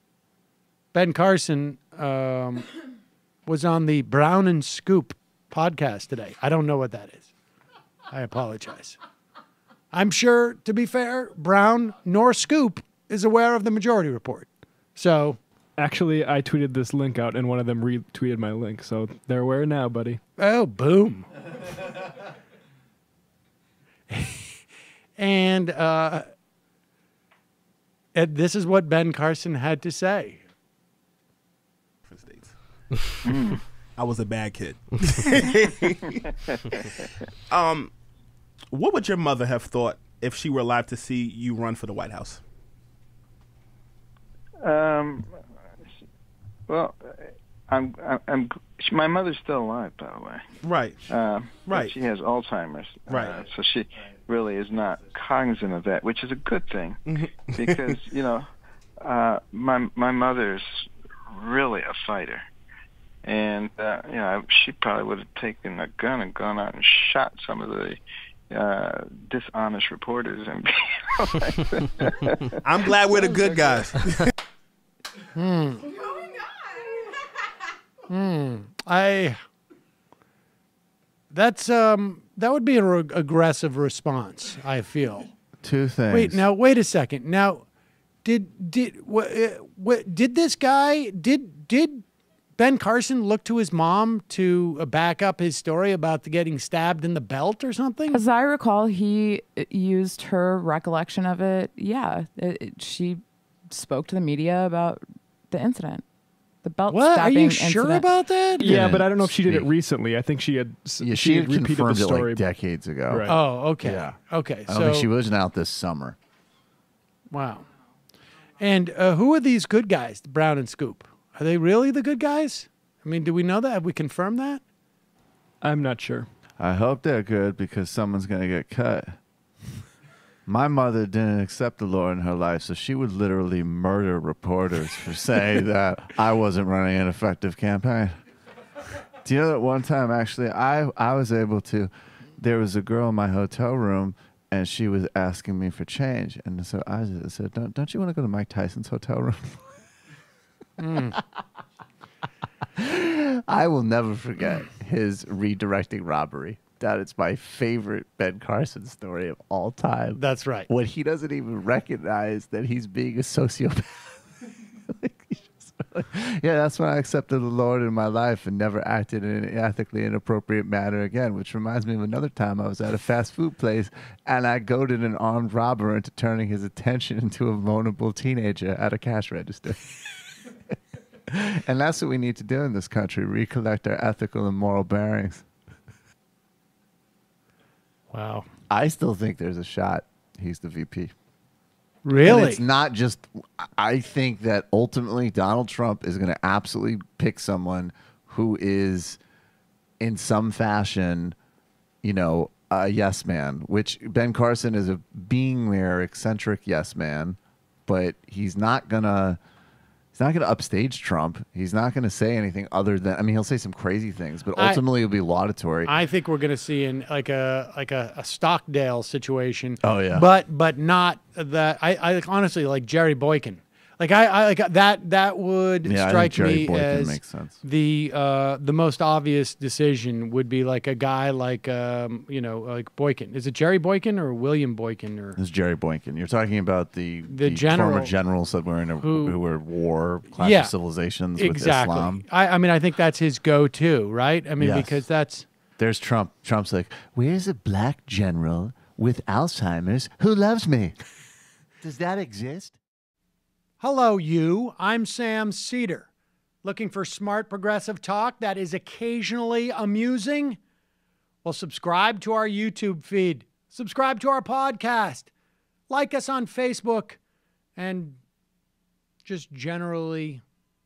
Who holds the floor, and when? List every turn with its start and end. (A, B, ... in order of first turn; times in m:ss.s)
0:00.9-0:02.7 A
0:03.4-0:07.3 A
0:08.1-0:09.0 A
0:09.9-0:15.4 A
0:15.8-0:20.2 B
0:20.4-0:21.3 A
0:24.1-0:24.6 A
0:25.2-0:26.2 A
0:28.1-0:30.4 A
0:32.1-0:32.6 C
0:33.2-0:33.6 D
0:34.0-0:36.2 C
0:37.5-0:37.9 C
0:38.7-0:42.4 C
0:44.6-0:45.3 D
0:46.7-0:50.4 D
0:50.6-0:51.0 C
0:51.1-0:58.5 D
0:51.6-0:51.9 C
0:53.1-0:53.4 C
0:57.0-0:58.0 C
0:59.0-1:00.6 D
1:01.3-1:02.4 D
1:03.2-1:08.0 D
1:08.5-1:12.4 D
1:12.6-1:14.3 C
1:15.3-1:15.9 A
1:18.1-1:19.4 A
1:21.3-1:25.3 A
1:25.6-1:26.4 E
1:26.1-1:27.6 A
1:28.2-1:32.0 A
1:32.6-1:38.2 A
1:38.1-1:46.0 F
1:46.6-1:48.1 F
1:46.9-1:48.7 A
1:48.6-1:52.4 B
1:48.6-1:49.7 E
1:51.0-1:53.3 E
1:53.1-1:53.4 B
1:53.2-1:55.1 A
1:53.8-1:56.2 E
1:57.3-1:57.7 A
1:58.6-2:04.6 A
2:05.6-2:06.3 B
2:06.6-2:09.2 E
2:10.5-2:18.1 E
2:19.2-2:29.6 E
2:30.8-2:31.2 A
2:32.8-2:44.2 E
2:40.2-2:40.7 A
2:44.9-2:59.9 E
3:01.3-3:05.4 E
3:08.1-3:08.4 A
3:08.7-3:11.1 E
3:12.0-3:12.6 A
3:12.2-3:19.2 E
3:20.0-3:21.4 E
3:22.0-3:29.4 E
3:30.1-3:35.9 E
3:34.6-3:34.8 A
3:35.8-3:55.4 A
3:39.8-3:40.2 E
3:45.8-3:47.6 E
3:55.4-4:02.2 E
3:57.3-3:58.1 A
3:59.0-3:59.4 A
4:00.4-4:00.7 A
4:01.3-4:05.4 A
4:04.6-4:05.1 E
4:05.8-4:11.0 E
4:11.8-4:12.8 E
4:13.8-4:16.1 A
4:16.6-4:20.6 A
4:21.4-4:25.3 A
4:25.9-4:27.2 A
4:27.8-4:28.2 A
4:29.2-4:30.4 A